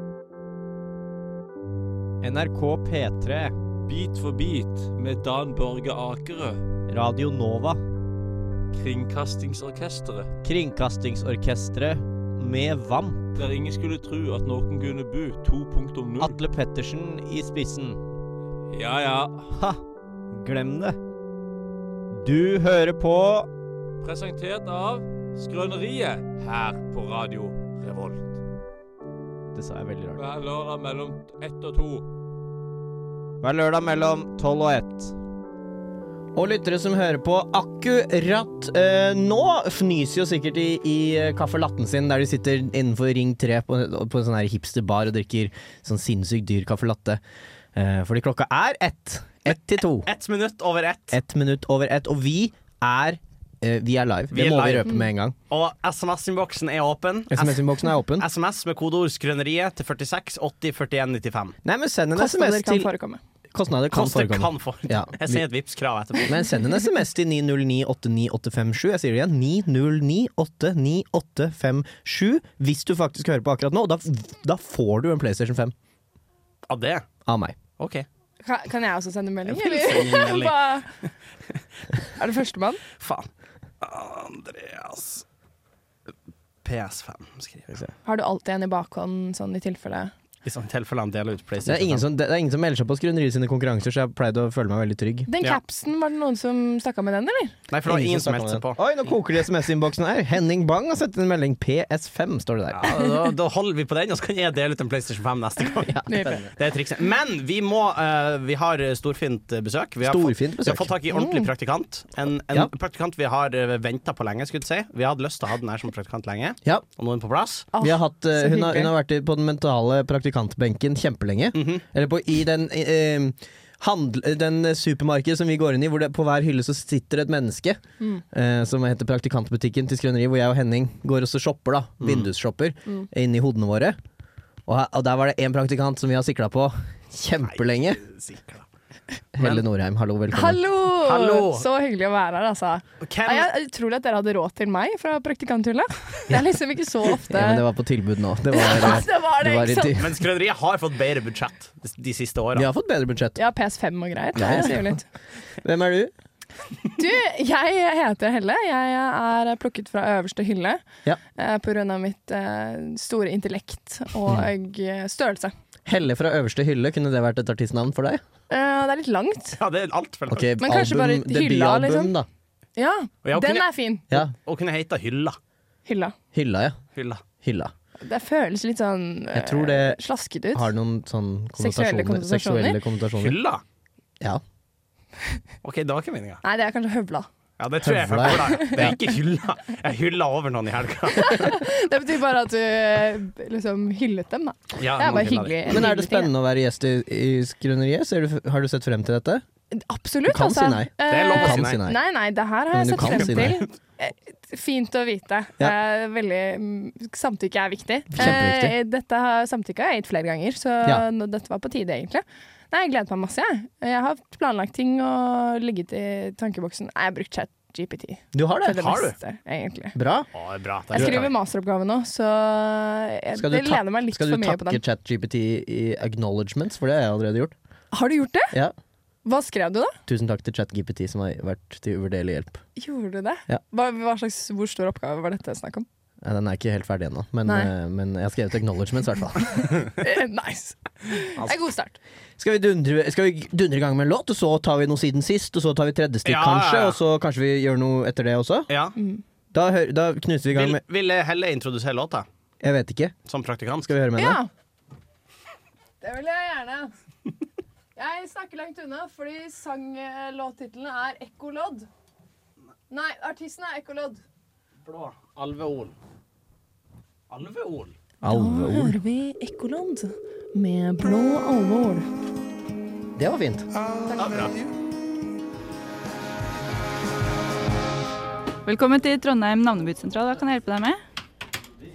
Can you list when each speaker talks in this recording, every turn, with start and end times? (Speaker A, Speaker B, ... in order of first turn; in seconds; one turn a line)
Speaker A: 2.2-3.5
Speaker B: 3.9-6.6
Speaker A: 6.9-7.8
Speaker B: 8.7-10.3
Speaker A: 10.4-13.2
Speaker B: 13.3-16.4
Speaker A: 16.2-18.0
Speaker B: 18.7-19.5
Speaker A: 20.3-21.0
Speaker A: 22.1-23.5
Speaker B: 24.0-28.4
Speaker A: 29.5-30.2
Speaker B: 30.1-32.0
Speaker A: 33.4-35.1
Speaker A: 36.3-47.2
Speaker A: 47.7-50.1
Speaker C: 49.5-51.2
Speaker A: 51.1-55.3
Speaker C: 54.3-54.9
Speaker C: 55.5-61.5
Speaker A: 57.3-58.3
Speaker A: 61.6-62.9
Speaker D: 62.1-63.2
Speaker A: 63.5-65.4
Speaker C: 63.9-66.4
Speaker A: 66.2-75.7
Speaker C: 76.7-77.0
Speaker A: 77.2-77.5
Speaker C: 77.8-78.0
Speaker D: 78.4-80.9
Speaker C: 79.5-80.6
Speaker D: 82.2-82.8
Speaker C: 83.0-83.3
Speaker C: 83.8-85.2
Speaker C: 86.6-87.8
Speaker D: 88.0-90.1
Speaker C: 90.4-92.0
Speaker A: 91.6-95.3
Speaker D: 95.3-97.5
Speaker C: 97.7-98.8
Speaker A: 97.8-102.9
Speaker C: 102.7-117.7
Speaker A: 105.8-106.5
Speaker D: 106.1-106.4
Speaker A: 110.0-110.9
Speaker D: 111.1-111.5
Speaker D: 117.7-118.9
Speaker A: 117.8-127.8
Speaker C: 121.5-121.8
Speaker A: 128.3-134.0
Speaker C: 132.0-132.3
Speaker A: 134.7-138.0
Speaker C: 137.6-138.6
Speaker A: 139.3-140.6
Speaker C: 139.4-139.6
Speaker D: 140.3-147.6
Speaker C: 140.9-141.7
Speaker C: 143.0-143.5
Speaker A: 147.2-150.2
Speaker D: 148.5-150.0
Speaker C: 150.0-152.7
Speaker A: 152.6-153.4
Speaker D: 153.3-155.0
Speaker A: 154.3-155.0
Speaker A: 155.6-156.1
Speaker D: 156.9-160.8
Speaker D: 161.3-165.5
Speaker A: 165.8-168.2
Speaker D: 168.5-169.6
Speaker C: 169.6-170.5
Speaker A: 170.3-172.3
Speaker D: 170.6-172.1
Speaker D: 172.8-174.1
Speaker C: 173.2-175.3
Speaker D: 175.8-176.1
Speaker A: 176.3-176.8
Speaker C: 176.9-177.2
Speaker A: 177.4-177.7
Speaker D: 178.0-180.7
Speaker A: 179.3-180.0
Speaker A: 180.5-183.4
Speaker D: 181.6-182.8
Speaker C: 183.2-183.6
Speaker C: 185.6-186.4
Speaker D: 186.4-187.3
Speaker C: 187.6-191.6
Speaker A: 187.8-189.0
Speaker D: 188.4-188.8
Speaker D: 191.2-196.3
Speaker C: 194.8-195.8
Speaker A: 195.7-199.4
Speaker D: 199.7-219.9
Speaker A: 200.2-202.0
Speaker C: 201.1-201.8
Speaker A: 202.7-203.6
Speaker C: 203.0-203.6
Speaker A: 208.1-208.8
Speaker A: 218.3-219.0
Speaker C: 218.7-219.1
Speaker A: 219.9-220.3
Speaker C: 220.3-221.3
Speaker D: 220.9-224.8
Speaker A: 220.9-221.3
Speaker A: 223.3-227.5
Speaker D: 227.9-228.6
Speaker D: 229.2-230.0
Speaker A: 230.1-232.6
Speaker D: 232.8-235.8
Speaker A: 236.2-239.8
Speaker D: 237.4-237.7
Speaker D: 239.7-242.0
Speaker A: 242.4-248.7
Speaker C: 246.2-247.0
Speaker C: 248.7-248.9
Speaker A: 249.5-250.8
Speaker C: 250.5-252.2
Speaker A: 252.6-253.1
Speaker C: 253.3-253.9
Speaker A: 253.8-254.4
Speaker D: 254.2-254.5
Speaker D: 256.0-256.9
Speaker D: 257.9-261.9
Speaker D: 262.9-264.2
Speaker C: 264.8-265.9
Speaker C: 267.3-267.9
Speaker A: 268.2-269.0
Speaker D: 268.3-272.1
Speaker A: 273.2-273.6
Speaker D: 274.1-274.5
Speaker C: 274.1-274.7
Speaker E: 278.6-281.0